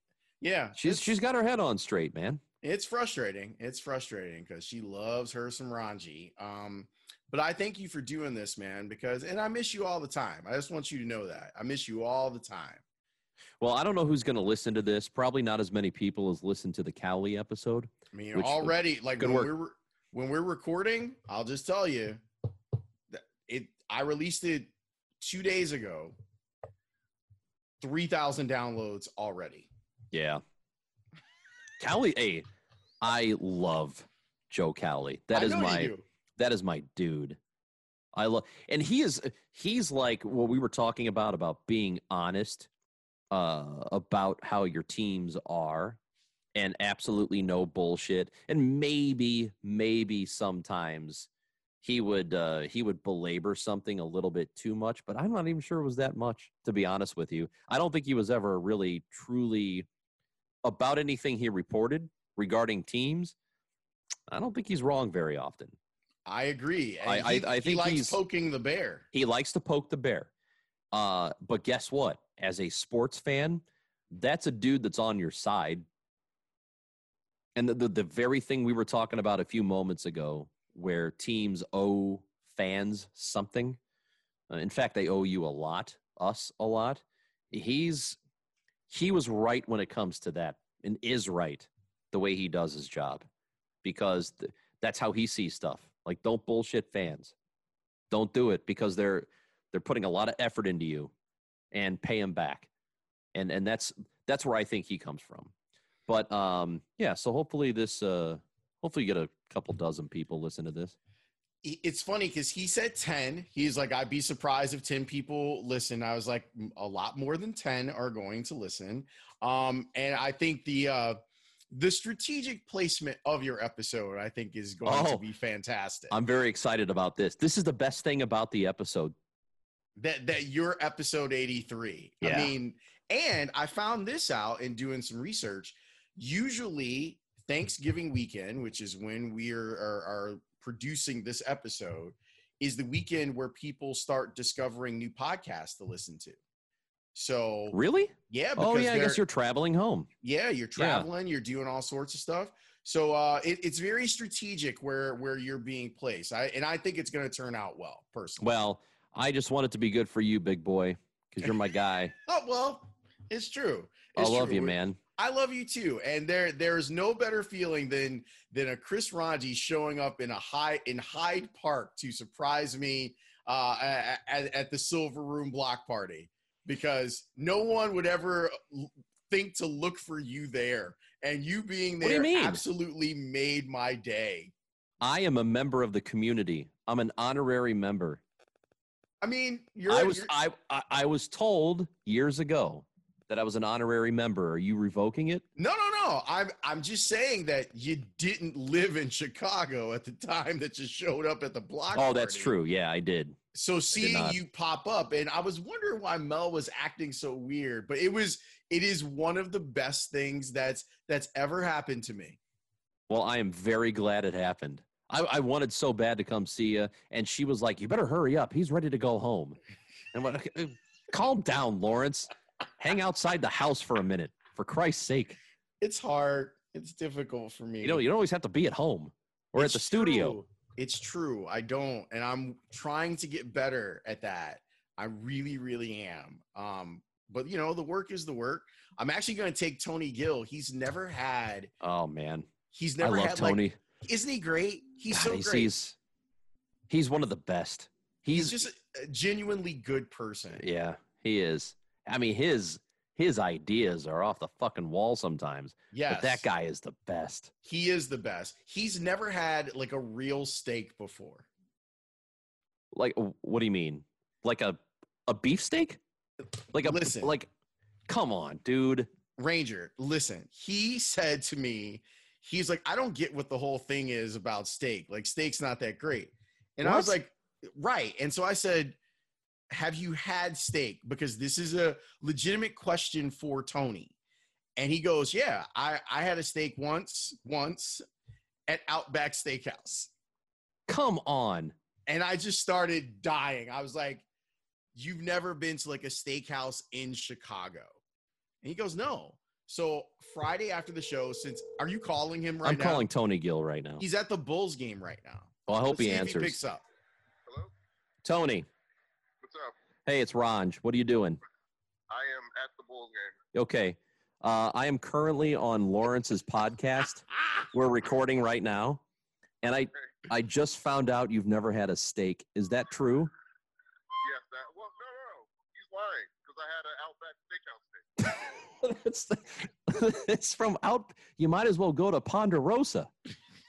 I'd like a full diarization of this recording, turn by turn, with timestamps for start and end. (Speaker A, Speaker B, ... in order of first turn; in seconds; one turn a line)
Speaker A: 0.4-1.2
Speaker B: 0.8-2.4
Speaker A: 2.6-12.8
Speaker B: 13.6-19.5
Speaker A: 18.1-22.2
Speaker A: 23.1-26.1
Speaker A: 27.8-29.7
Speaker B: 30.1-30.4
Speaker B: 31.8-32.5
Speaker B: 33.0-37.4
Speaker A: 35.3-36.1
Speaker B: 38.1-42.7
Speaker B: 43.3-46.0
Speaker B: 46.6-51.3
Speaker B: 51.8-59.9
Speaker B: 60.6-63.4
Speaker B: 64.3-65.8
Speaker A: 66.3-69.0
Speaker B: 67.0-68.2
Speaker B: 69.1-70.3
Speaker B: 70.9-75.8
Speaker B: 77.6-83.8
Speaker B: 84.5-88.2
Speaker B: 88.9-93.3
Speaker B: 93.8-97.3
Speaker B: 98.1-101.1
Speaker B: 101.7-102.7
Speaker B: 103.3-105.5
Speaker B: 106.1-111.0
Speaker A: 111.6-121.2
Speaker A: 121.7-126.2
Speaker B: 124.8-125.2
Speaker B: 126.1-129.1
Speaker A: 130.0-146.4
Speaker B: 132.2-132.5
Speaker A: 147.1-147.8
Speaker B: 147.7-150.1
Speaker A: 148.3-149.2
Speaker A: 150.2-158.5
Speaker B: 150.8-151.1
Speaker B: 158.4-162.1
Speaker A: 162.3-184.5
Speaker B: 164.2-165.0
Speaker B: 182.0-182.6
Speaker B: 185.0-188.2
Speaker A: 189.2-190.3
Speaker B: 189.9-195.4
Speaker A: 195.6-202.5
Speaker B: 201.9-203.4
Speaker A: 203.5-212.4
Speaker B: 203.9-204.4
Speaker B: 213.1-219.6
Speaker B: 220.1-225.4
Speaker A: 225.8-228.0
Speaker B: 227.8-230.4
Speaker A: 229.6-241.7
Speaker B: 241.8-242.5
Speaker A: 242.7-245.7
Speaker B: 243.0-243.8
Speaker B: 245.1-246.0
Speaker B: 246.9-248.6
Speaker A: 248.3-250.6
Speaker B: 250.6-257.5
Speaker A: 255.9-256.5
Speaker A: 257.6-261.5
Speaker B: 262.9-266.0
Speaker B: 266.7-267.5
Speaker A: 266.8-267.3
Speaker B: 268.1-269.1
Speaker A: 269.4-279.0
Speaker B: 276.8-277.2
Speaker A: 279.7-284.1
Speaker A: 284.8-288.0
Speaker A: 288.7-290.1
Speaker B: 290.9-291.8
Speaker A: 292.1-294.2
Speaker A: 294.9-298.0
Speaker A: 298.6-303.1
Speaker B: 302.6-304.0
Speaker A: 304.0-306.8
Speaker B: 305.7-306.6
Speaker B: 308.2-308.7
Speaker C: 309.4-309.7
Speaker B: 310.1-311.4
Speaker C: 312.1-313.4
Speaker B: 313.5-319.0
Speaker B: 319.6-323.3
Speaker C: 324.2-328.6
Speaker B: 328.2-333.1